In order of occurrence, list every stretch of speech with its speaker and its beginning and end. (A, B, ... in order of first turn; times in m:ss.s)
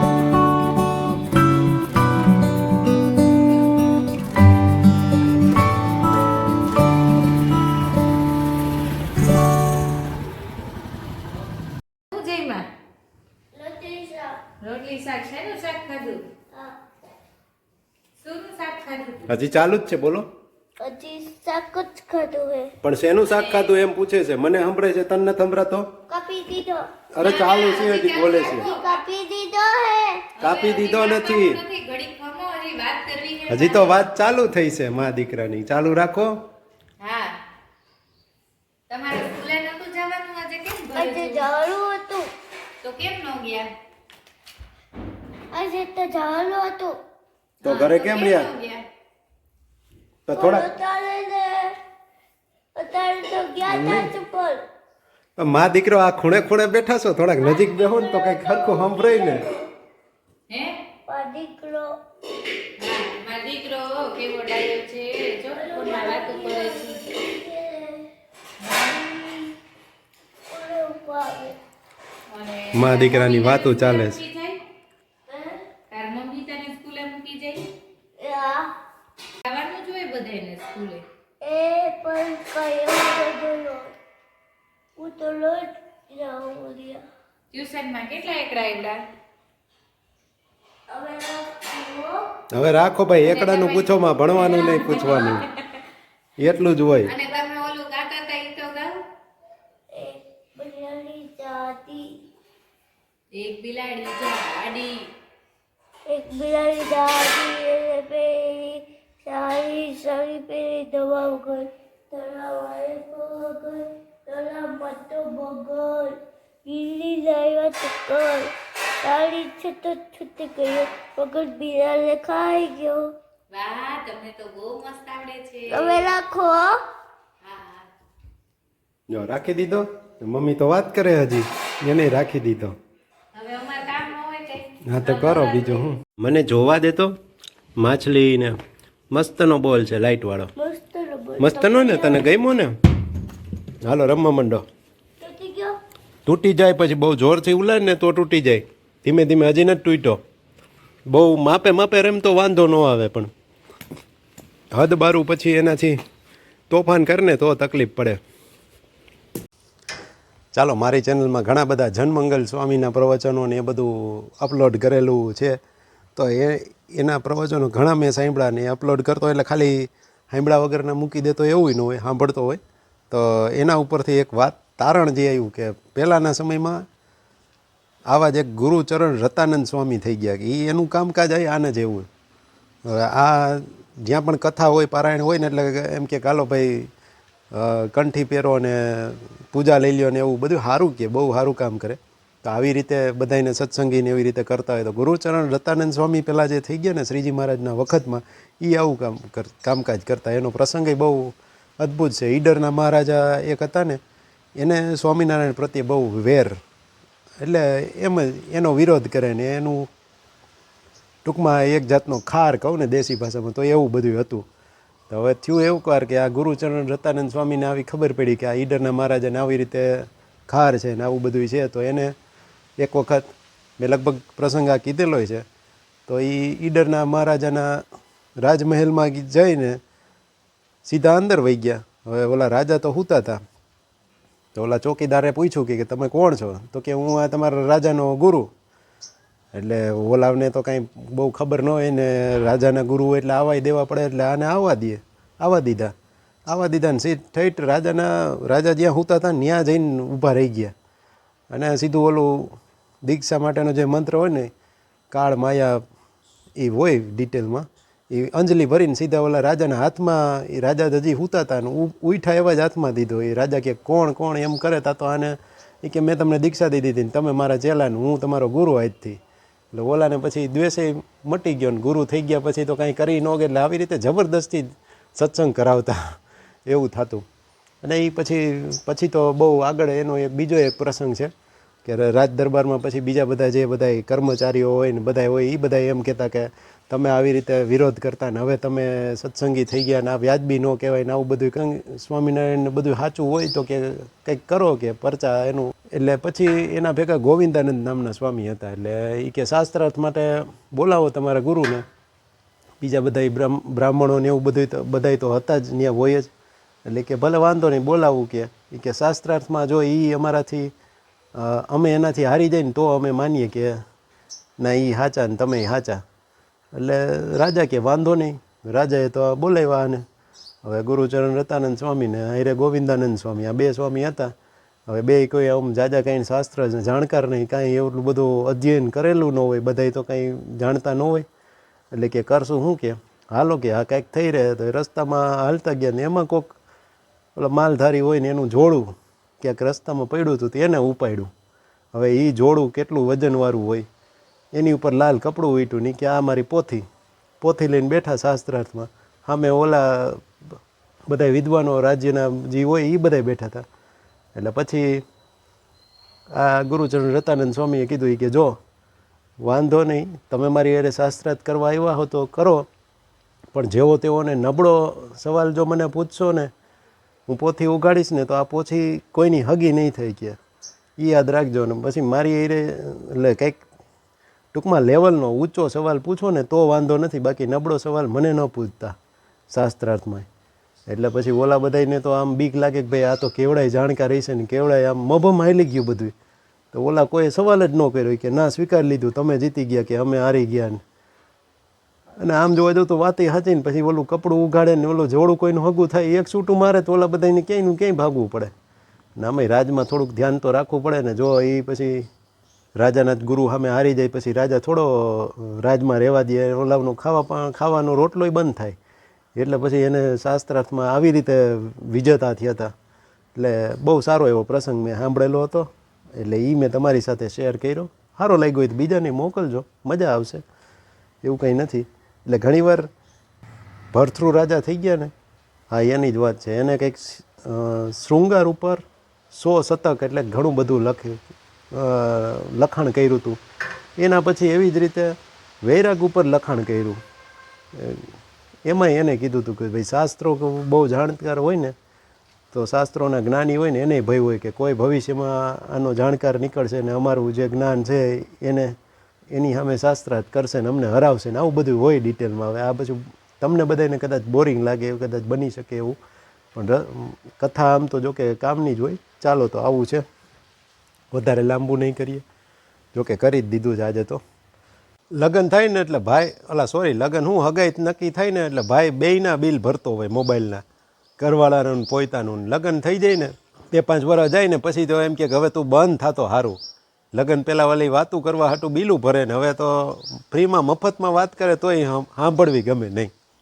0:12.1-0:12.7 A
0:13.5-0:14.4 B
0:14.6-0:16.3 A
0:16.5-0:16.8 B
0:18.2-0:19.3 A
0:19.3-0:20.3 C
0:20.8-0:22.7 B
0:22.8-0:25.9 C
0:23.2-0:23.7 A
0:26.1-0:26.9 B
0:27.1-0:28.7 C
0:27.2-0:29.0 A
0:28.4-0:30.2 B
0:30.4-0:34.0 A
0:30.4-0:31.6 C
0:33.5-0:36.4 C
0:37.0-0:37.4 A
0:38.9-0:41.4 A
0:40.9-0:42.3 B
0:42.8-0:43.7 A
0:45.5-0:47.0 B
0:47.6-0:48.8 A
0:47.6-0:48.5 C
0:50.3-0:50.7 C
0:50.3-0:51.8 B
0:52.7-0:54.6 B
0:53.6-0:54.1 C
0:55.4-0:59.4 C
0:57.4-0:59.7 B
1:00.5-1:00.8 A
1:01.1-1:01.9 B
1:02.8-1:07.0 A
1:05.5-1:08.1 B
1:08.6-1:09.0 A
1:08.7-1:09.5 B
1:10.5-1:11.6 B
1:12.3-1:14.6 A
1:12.7-1:14.2 C
1:15.3-1:15.7 B
1:15.9-1:17.6 A
1:18.2-1:18.7 B
1:19.4-1:21.0 A
1:21.4-1:23.9 B
1:25.0-1:27.0 B
1:27.5-1:29.0 A
1:30.9-1:32.2 B
1:32.5-1:35.4 C
1:33.2-1:35.6 A
1:36.4-1:37.1 C
1:37.0-1:38.9 A
1:39.9-1:42.1 B
1:43.3-1:45.0 A
1:46.1-2:03.1 B
2:03.5-2:06.1 A
2:05.7-2:06.8 B
2:07.4-2:07.9 A
2:09.1-2:12.7 C
2:13.3-2:15.9 A
2:14.8-2:17.1 C
2:17.8-2:18.6 C
2:19.1-2:20.5 C
2:20.6-2:22.3 B
2:21.4-2:22.7 C
2:23.8-2:24.6 C
2:25.2-2:25.7 B
2:26.2-2:30.2 C
2:31.1-2:33.3 C
2:34.7-2:36.0 C
2:36.7-2:38.2 C
2:40.5-2:45.6 C
2:46.2-2:52.6 C
2:53.1-2:56.8 C
2:58.1-3:02.0 C
3:02.8-3:06.9 C
3:07.5-3:24.0 C
3:24.6-3:26.6 C
3:27.4-3:29.9 C
3:31.2-3:34.4 C
3:35.1-3:42.1 C
3:42.8-3:43.2 C
3:43.8-3:45.4 C
3:46.1-3:47.8 C
3:48.4-3:49.8 C
3:50.8-3:53.4 C
3:54.5-3:58.5 C
3:59.5-4:05.9 C
4:06.5-4:10.7 C
4:11.5-4:14.5 C
4:15.1-4:15.8 C
4:16.6-4:29.2 C
4:29.7-4:37.2 C
4:37.8-4:41.3 C
4:41.8-5:01.8 C
5:02.8-5:06.3 C
5:06.9-5:10.7 C
5:11.3-5:13.8 C
5:14.6-5:16.0 C
5:16.7-5:20.0 C
5:20.6-5:24.3 C
5:24.9-5:31.2 C
5:31.9-5:36.5 C
5:37.4-5:41.3 C
5:41.9-5:43.8 C
5:44.5-5:46.8 C
5:47.4-5:50.2 C
5:51.1-5:53.6 C
5:54.3-5:55.0 C
5:56.3-5:58.6 C
5:59.4-6:02.7 C
6:03.5-6:06.5 C
6:07.3-6:10.4 C
6:11.0-6:13.6 C
6:14.5-6:18.9 C
6:19.5-6:20.3 C
6:20.9-6:26.1 C
6:26.7-6:30.8 C
6:32.2-6:38.5 C
6:39.2-6:42.1 C
6:42.8-6:48.8 C
6:49.4-6:52.7 C
6:53.3-7:00.4 C
7:01.2-7:02.9 C
7:03.9-7:05.1 C
7:05.7-7:11.2 C
7:11.7-7:13.4 C
7:14.0-7:17.0 C
7:17.7-7:18.1 C
7:18.6-7:21.7 C
7:22.5-7:28.7 C
7:29.3-7:36.0 C
7:36.5-7:40.0 C
7:41.1-7:42.2 C
7:42.9-7:44.2 C
7:45.1-7:50.6 C
7:51.2-7:56.6 C
7:57.1-8:03.1 C